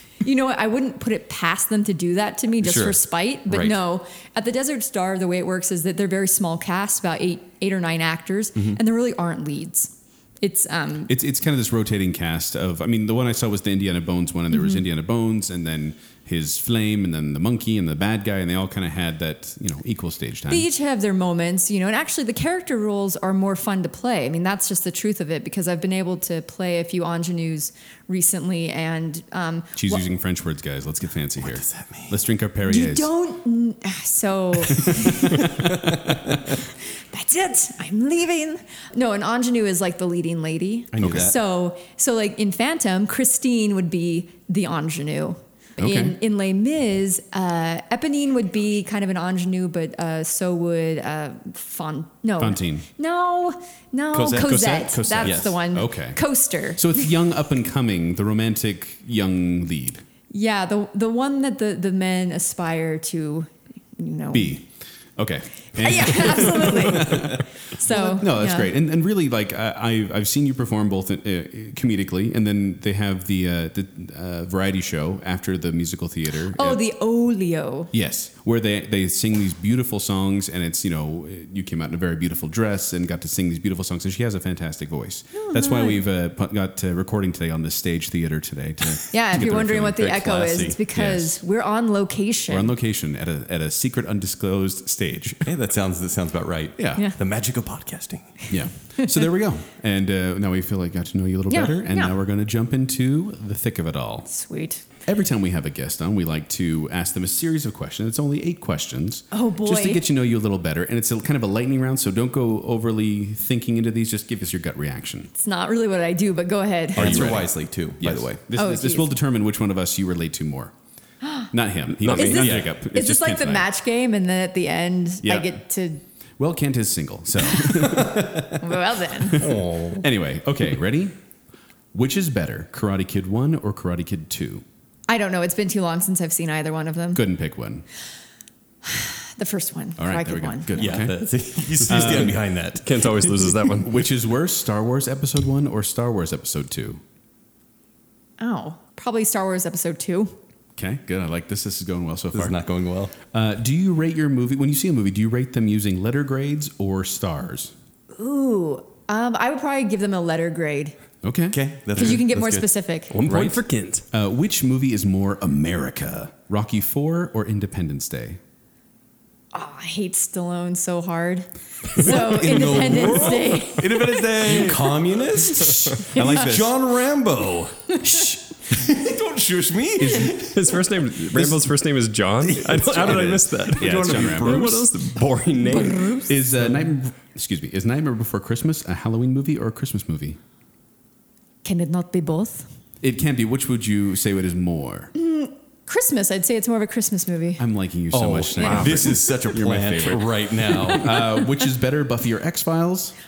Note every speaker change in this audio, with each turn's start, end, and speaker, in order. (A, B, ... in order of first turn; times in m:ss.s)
0:00.2-0:11.1 A
0:02.6-0:03.7 B
0:11.1-0:20.7 C
0:14.5-0:14.8 A
0:20.5-0:30.0 A
0:29.7-0:33.1 C
0:31.4-0:32.2 B
0:32.6-0:35.4 A
0:34.8-0:36.6 B
0:37.1-0:57.1 A
0:40.9-0:41.3 B
0:41.0-0:41.3 C
0:45.8-0:46.2 C
0:52.4-0:52.9 C
0:54.1-0:54.5 B
0:54.1-0:56.2 C
0:55.2-0:55.5 B
0:56.7-1:00.0 C
1:00.3-1:04.6 A
1:04.3-1:16.8 C
1:05.7-1:08.7 A
1:16.5-1:17.9 A
1:17.9-1:30.1 C
1:25.3-1:26.0 A
1:29.1-1:32.7 A
1:29.8-1:30.8 B
1:30.9-1:31.4 C
1:32.5-1:35.5 C
1:35.4-1:38.4 B
1:36.8-1:37.0 C
1:38.4-1:39.2 A
1:38.5-1:44.3 C
1:41.5-1:42.1 A
1:44.2-1:44.8 A
1:45.0-1:55.3 C
1:49.3-1:50.0 A
1:55.3-1:57.4 A
1:56.9-1:58.4 B
1:56.9-2:00.7 C
1:58.5-1:59.1 A
2:01.2-2:01.5 A
2:01.5-2:03.7 C
2:02.0-2:02.4 D
2:02.2-2:06.0 A
2:02.2-2:02.7 B
2:05.2-2:05.5 C
2:06.4-2:08.5 C
2:07.8-2:08.5 B
2:08.6-2:09.4 A
2:09.2-2:11.1 C
2:09.4-2:10.1 B
2:11.9-2:14.6 C
2:15.1-2:17.2 A
2:17.1-2:17.8 C
2:18.8-2:21.0 A
2:20.0-2:21.3 C
2:20.7-2:23.5 B
2:21.8-2:22.4 C
2:21.9-2:23.9 D
2:23.7-2:27.0 C
2:28.4-2:30.3 A
2:30.8-2:32.6 C
2:32.3-2:33.1 B
2:33.2-2:37.7 C
2:38.1-2:40.9 A
2:41.2-2:41.6 C
2:41.5-2:42.7 B
2:41.9-2:43.1 A
2:43.1-2:44.0 D
2:43.3-2:43.6 B
2:44.1-2:48.4 C
2:49.5-2:54.2 A
2:52.0-3:00.8 B
2:52.6-2:57.0 C
2:56.1-2:56.4 A
3:00.0-3:00.6 C
3:00.5-3:06.1 D
3:01.3-3:01.6 C
3:02.5-3:04.9 B
3:03.8-3:04.8 C
3:05.6-3:06.4 A
3:06.3-3:10.4 C
3:11.6-3:12.7 A
3:13.0-3:15.1 C
3:15.1-3:17.6 A
3:17.6-3:23.1 C
3:18.1-3:21.2 B
3:18.6-3:19.1 D